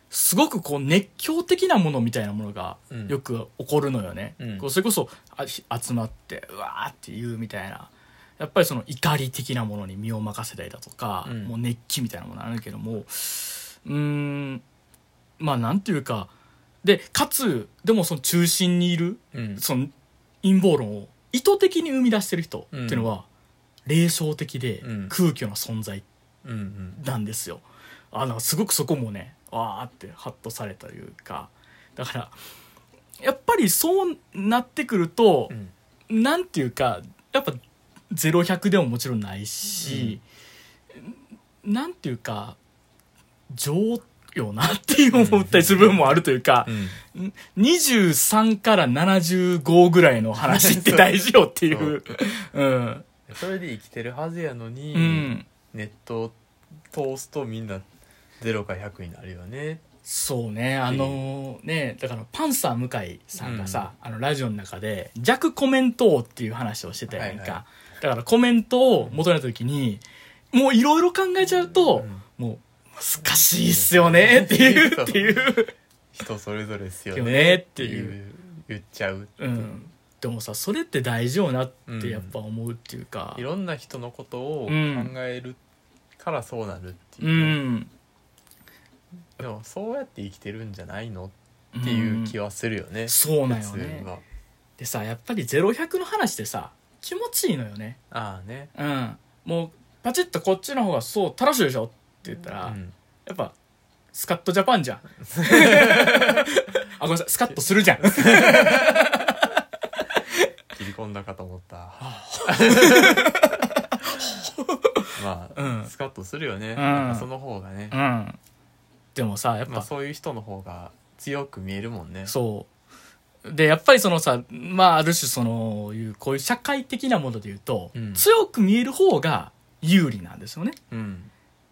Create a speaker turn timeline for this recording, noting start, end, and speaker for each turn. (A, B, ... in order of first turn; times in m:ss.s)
0:00.1-0:14.6 A
0:02.9-0:03.2 B
0:04.4-0:04.6 B
0:11.2-0:11.5 B
0:15.4-0:16.3 A
0:16.8-0:19.9 A
0:19.3-0:19.6 B
0:20.4-0:23.2 A
0:22.7-0:23.1 B
0:23.8-0:26.0 A
0:24.8-0:25.1 B
0:26.4-0:27.0 B
0:26.9-0:32.3 A
0:33.2-0:35.5 A
0:36.1-0:40.2 A
0:39.8-0:40.2 B
0:41.0-0:42.6 A
0:43.5-0:53.0 A
0:45.1-0:47.0 B
0:50.4-0:51.2 B
0:51.7-0:52.0 B
0:53.3-0:56.4 B
0:54.9-0:55.4 A
0:56.9-0:57.9 B
0:58.4-0:59.8 B
1:00.0-1:15.7 A
1:00.9-1:01.2 B
1:03.4-1:03.9 B
1:07.1-1:07.6 B
1:11.9-1:12.2 B
1:13.4-1:15.4 B
1:16.1-1:19.7 B
1:17.1-1:18.1 A
1:19.4-1:23.4 A
1:21.9-1:22.3 B
1:23.3-1:25.6 B
1:24.7-1:25.1 A
1:26.2-1:27.6 B
1:27.2-1:27.9 A
1:29.4-1:34.2 B
1:31.7-1:32.3 A
1:33.1-1:34.1 A
1:34.8-1:38.0 A
1:38.1-1:38.7 B
1:38.7-1:43.5 A
1:42.6-1:42.9 B
1:44.1-1:49.5 A
1:45.3-1:46.4 B
1:48.0-1:49.1 B
1:50.7-1:53.4 B
1:52.0-1:55.9 A
1:55.1-1:58.0 B
1:56.8-1:57.3 A
1:57.9-1:58.4 A
1:59.1-1:59.9 A
1:59.7-2:02.3 B
2:02.3-2:02.7 A
2:03.4-2:10.8 A
2:07.9-2:08.2 B
2:10.9-2:11.3 B